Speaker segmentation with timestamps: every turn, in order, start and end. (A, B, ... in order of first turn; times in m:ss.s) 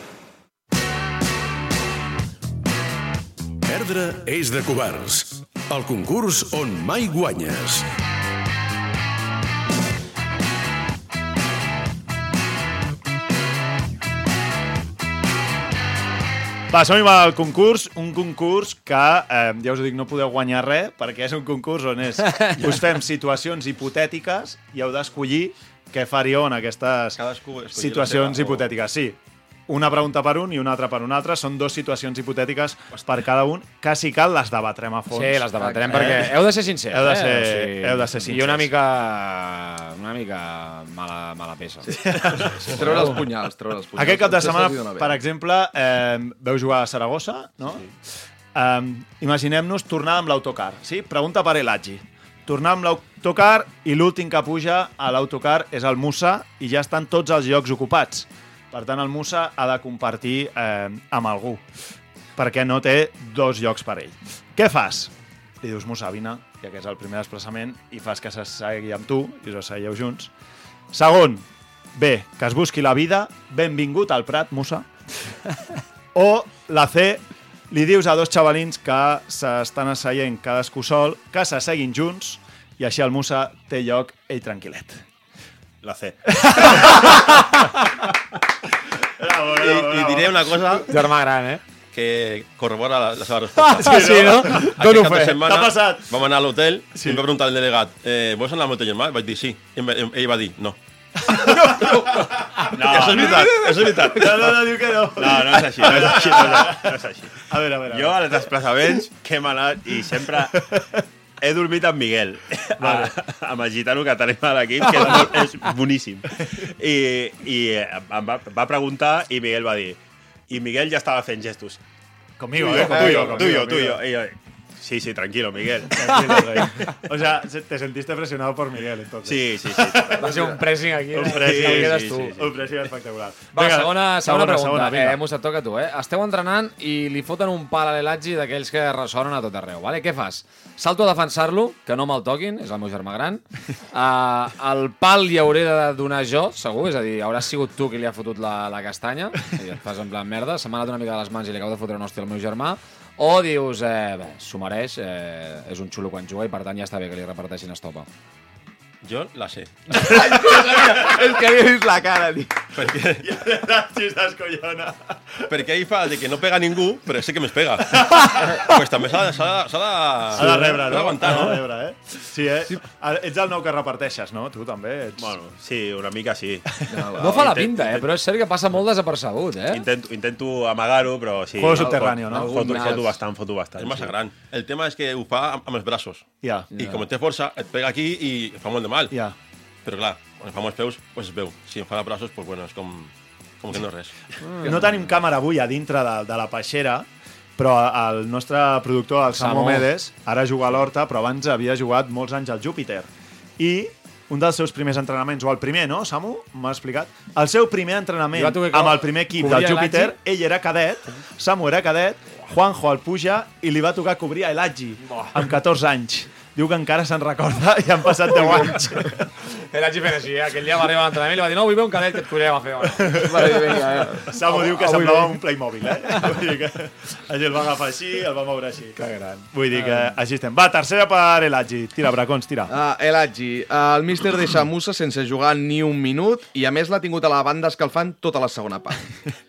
0:03.6-0:07.8 A
0:16.7-0:27.2 B
0:27.2-0:28.6 C
0:27.7-0:29.2 B
0:29.7-0:35.5 B
0:35.1-0:41.9 D
0:35.6-0:36.3 E
0:36.9-0:38.7 B
0:42.1-0:43.2 B
0:42.7-0:45.2 E
0:44.0-0:47.8 B
0:48.5-1:01.6 B
1:02.4-1:10.3 B
1:10.9-1:14.9 B
1:16.1-1:25.0 B
1:25.8-1:26.7 F
1:26.3-1:27.2 B
1:29.2-1:30.8 B
1:29.6-1:30.8 C
1:30.9-1:31.6 D
1:31.9-1:40.8 C
1:33.6-1:35.3 D
1:33.8-1:36.0 B
1:37.0-1:37.2 B
1:41.2-1:41.9 B
1:42.7-1:50.6 F
1:42.8-1:44.3 C
1:44.2-1:46.9 B
1:47.5-1:48.4 B
1:51.4-2:01.8 F
1:52.8-1:53.1 B
1:54.9-1:55.3 B
2:02.4-2:04.0 B
2:02.5-2:06.8 F
2:03.1-2:03.4 E
2:06.0-2:10.5 B
2:09.2-2:10.6 F
2:10.2-2:12.4 D
2:11.1-2:15.2 B
2:11.3-2:12.6 F
2:13.5-2:38.1 D
2:39.0-2:40.0 C
2:39.9-2:42.6 E
2:40.0-2:40.4 B
2:42.7-2:43.2 C
2:43.2-2:45.4 B
2:45.5-2:51.6 C
2:47.9-2:48.7 B
2:50.3-2:55.4 B
2:55.2-2:56.7 F
2:56.9-2:57.5 E
2:57.2-2:59.8 D
2:57.3-2:58.1 F
2:59.7-3:04.1 F
3:01.5-3:02.7 B
3:01.8-3:03.2 E
3:03.8-3:09.1 C
3:06.4-3:06.7 B
3:09.8-3:14.1 C
3:14.6-3:17.0 B
3:17.6-3:23.1 B
3:19.3-3:19.8 D
3:23.6-3:39.3 B
3:28.3-3:30.1 D
3:39.7-3:45.4 D
3:43.1-3:43.4 B
3:43.2-3:44.2 E
3:44.3-3:49.0 B
3:49.0-3:50.0 D
3:49.5-3:52.7 B
3:52.7-3:59.1 E